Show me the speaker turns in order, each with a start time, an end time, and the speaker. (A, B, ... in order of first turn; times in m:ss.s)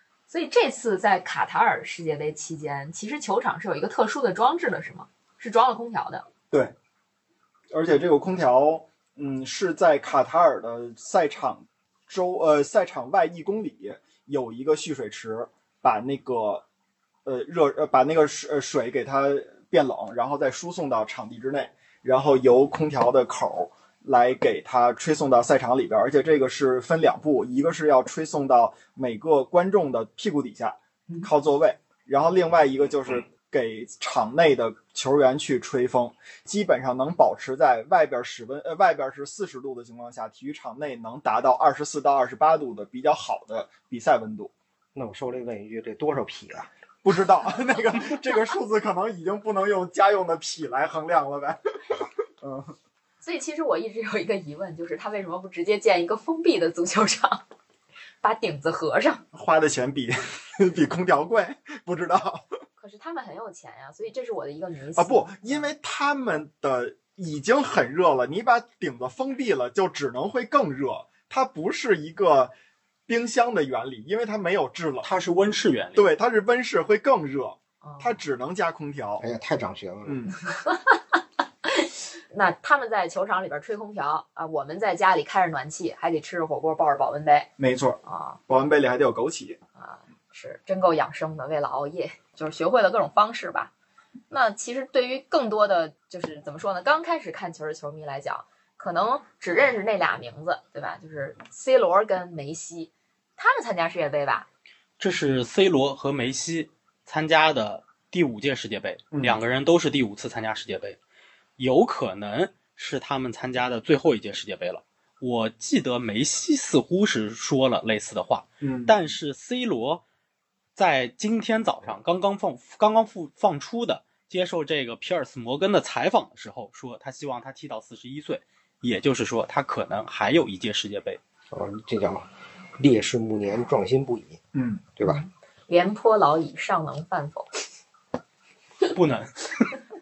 0:00.3-0:06.2 A
0:07.7-0:16.6 B
0:17.2-0:44.5 B
0:45.0-0:46.7 C
0:47.0-0:52.7 B
0:53.2-0:57.4 A
0:58.2-0:59.2 A
0:59.3-1:02.5 B
1:02.8-1:05.7 A
1:05.0-1:12.5 B
1:13.1-1:15.1 B
1:15.0-1:16.1 D
1:16.0-1:19.2 B
1:17.8-1:18.2 A
1:19.2-1:20.3 C
1:20.0-1:20.3 B
1:20.5-1:21.0 A
1:21.6-1:27.5 A
1:27.6-1:29.6 B
1:28.0-1:28.4 A
1:29.8-1:33.7 A
1:34.3-1:44.5 A
1:45.0-1:51.0 D
1:49.1-1:49.4 B
1:51.6-2:00.0 D
1:58.6-1:59.0 B
2:00.8-2:11.2 D
2:11.5-2:12.3 C
2:12.8-2:14.4 C
2:14.6-2:14.8 B
2:15.0-2:17.5 A
2:18.9-2:19.6 D